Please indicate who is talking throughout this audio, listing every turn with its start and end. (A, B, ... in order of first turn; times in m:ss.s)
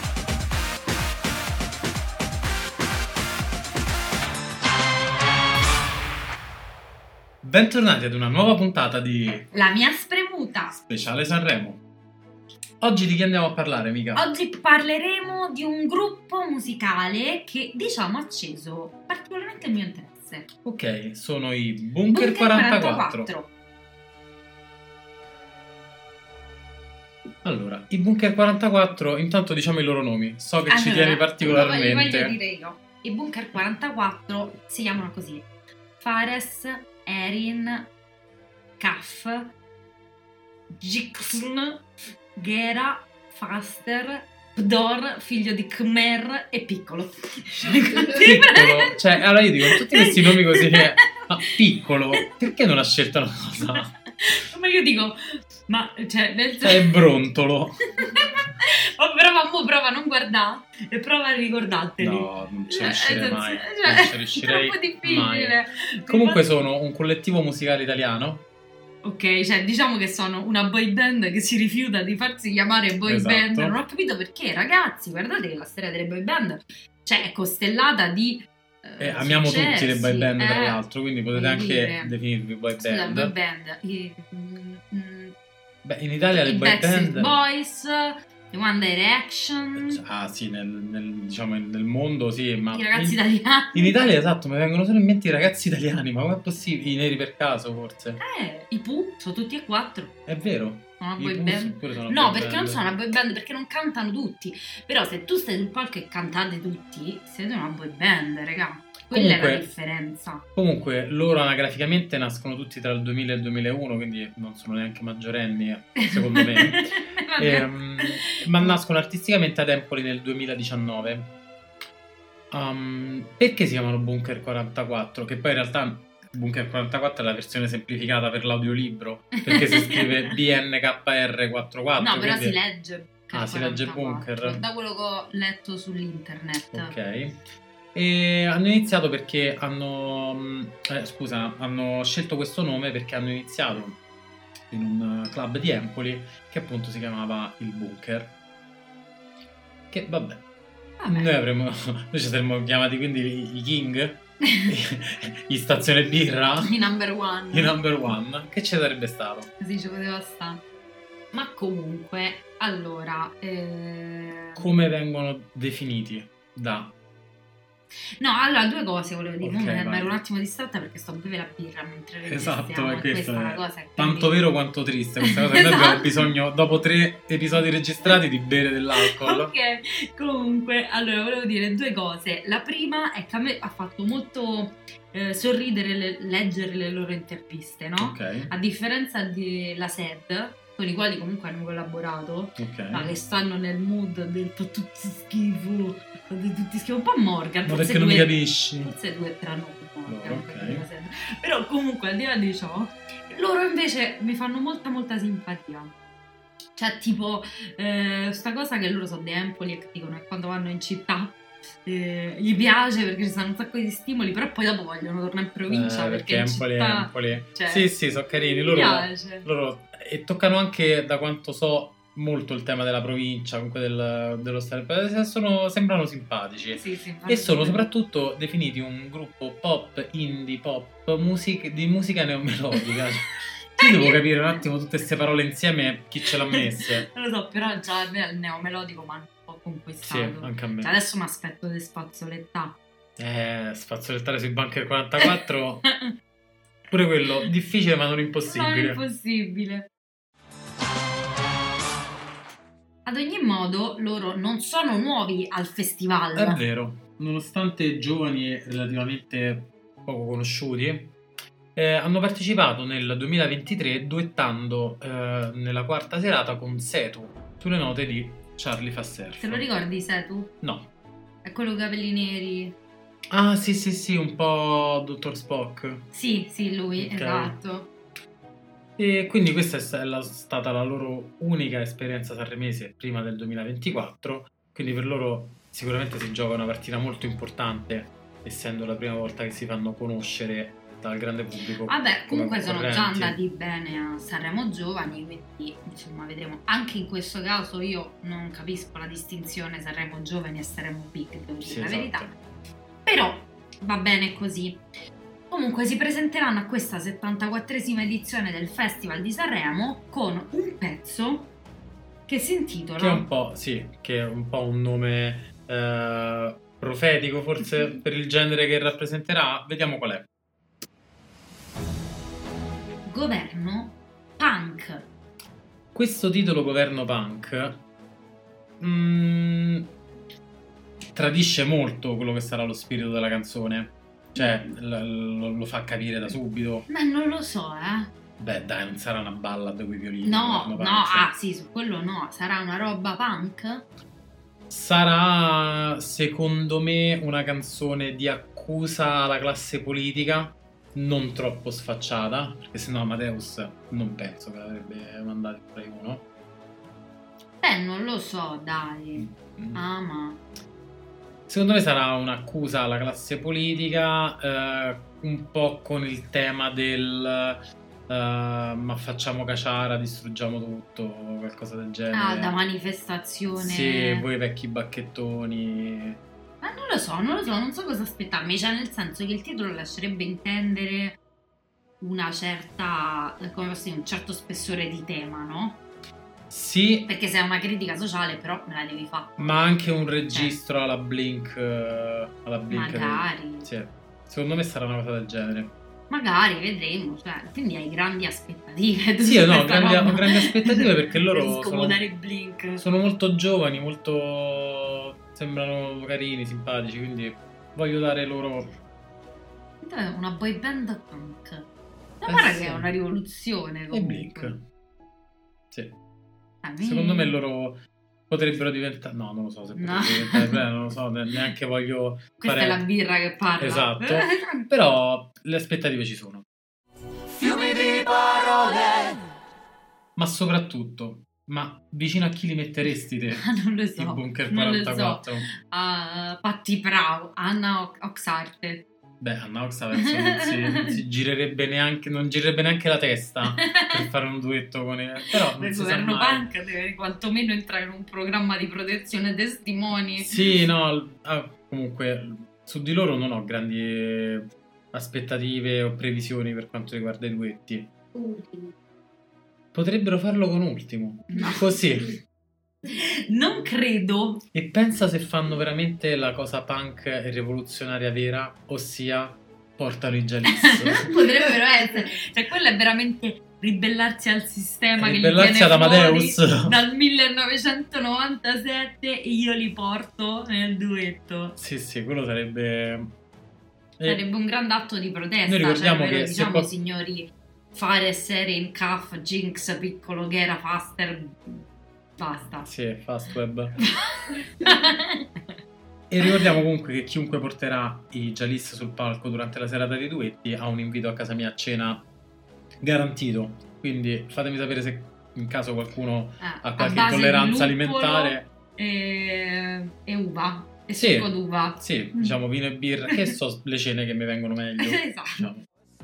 0:07.4-0:09.5 A
0:09.5-0:10.8 B
0:10.9-0:11.8 A
0:12.8-0:14.2 A
0:14.1-0:20.5 B
0:20.6-0:23.3 A
0:22.1-0:23.5 B
0:27.4-0:32.3 A
0:30.7-0:35.4 B
0:36.0-0:37.9 B
0:38.8-0:39.5 B
0:40.7-0:41.8 B
0:42.4-0:49.0 B
0:48.2-0:53.9 A
0:49.6-0:50.9 B
0:53.7-0:56.8 B
0:56.6-0:57.8 A
0:58.0-1:06.4 B
1:02.0-1:08.4 A
1:09.0-1:20.8 B
1:13.0-1:13.8 A
1:19.0-1:23.3 A
1:21.3-1:22.2 B
1:22.7-1:25.3 B
1:25.8-1:27.4 A
1:26.3-1:30.0 B
1:29.8-1:33.2 A
1:32.7-1:33.9 B
1:33.7-1:38.2 A
1:38.2-1:40.1 B
1:40.3-1:42.8 A
1:41.0-1:50.4 B
1:49.1-1:49.7 A
1:50.6-2:01.3 A
1:56.0-1:58.8 B
2:02.5-2:12.6 A
2:09.4-2:10.3 B
2:12.0-2:16.9 B
2:13.3-2:14.6 A
2:16.7-2:17.4 A
2:17.9-2:24.0 A
2:24.7-2:28.3 A
2:29.9-2:30.4 A
2:31.0-2:31.3 B
2:31.1-2:36.7 A
2:34.4-2:34.7 B
2:36.6-2:37.8 B
2:37.5-2:39.5 A
2:39.6-2:40.6 B
2:41.3-2:44.7 B
2:44.6-2:46.9 A
2:48.2-2:54.4 B
2:49.4-2:50.2 A
2:52.3-2:59.5 A
2:55.2-2:56.3 B
2:59.0-3:25.9 B
3:08.0-3:08.5 A
3:12.6-3:13.1 A
3:17.6-3:18.9 A
3:20.1-3:20.8 A
3:26.8-3:39.5 B
3:35.7-3:57.0 A
3:46.7-3:47.9 B
3:53.8-3:54.2 B
3:56.5-4:02.8 B
4:00.0-4:00.9 A
4:03.2-4:05.8 A
4:06.9-4:09.0 A
4:08.4-4:09.9 B
4:13.0-4:16.6 B
4:16.3-4:21.2 A
4:21.8-4:29.7 A
4:29.4-4:30.5 B
4:30.6-4:30.9 A
4:31.4-4:32.7 B
4:33.3-4:36.0 A
4:36.1-4:37.9 B
4:37.0-4:37.6 A
4:39.0-4:53.4 A
4:51.9-5:02.3 B
5:01.6-5:02.3 A
5:03.0-5:04.8 B
5:05.5-5:11.5 B
5:12.3-5:13.2 B
5:13.0-5:20.3 A
5:23.1-5:25.1 B
5:25.9-5:27.8 A
5:28.8-5:29.9 A
5:31.1-5:36.9 A
5:36.9-5:38.1 B
5:38.4-5:41.3 A
5:40.2-5:43.8 B
5:44.7-5:56.2 A
5:57.6-6:00.4 B
5:59.2-5:59.8 A
6:01.5-6:12.6 A
6:12.1-6:14.2 B
6:13.6-6:16.2 A
6:16.6-6:21.2 B
6:22.0-6:25.8 B
6:26.5-6:27.1 A
6:27.1-6:29.6 B
6:29.4-6:35.7 A
6:30.3-6:30.6 B
6:32.7-6:33.7 B
6:36.1-6:42.8 B
6:39.2-6:42.0 A
6:42.8-6:48.7 A
6:49.8-6:51.6 B
6:52.2-6:54.5 B
6:52.3-6:52.9 A
6:53.9-6:54.6 A
6:55.7-6:56.0 A
6:56.6-6:57.4 B
6:56.8-7:02.8 A
6:59.7-7:00.6 B
7:02.4-7:04.6 B
7:03.6-7:06.4 A
7:07.4-7:08.2 B
7:10.2-7:13.4 A
7:13.3-7:18.8 B
7:14.0-7:15.5 A
7:19.2-7:26.4 A
7:19.9-7:20.9 B
7:23.4-7:24.0 B
7:25.3-7:30.5 B
7:30.2-7:37.9 A
7:38.1-7:38.7 B
7:39.7-7:42.2 A
7:41.3-7:41.7 B
7:42.9-7:44.4 B
7:44.5-7:51.1 A
7:50.5-8:01.6 B
7:55.0-7:56.8 A
8:01.6-8:03.1 A
8:04.0-8:11.6 B
8:05.4-8:06.7 A
8:12.2-8:12.7 B
8:12.7-8:13.8 A
8:13.9-8:15.3 B
8:16.1-8:22.0 A
8:22.8-8:28.5 A
8:26.4-8:32.4 B
8:31.0-8:35.6 A
8:34.8-8:35.4 B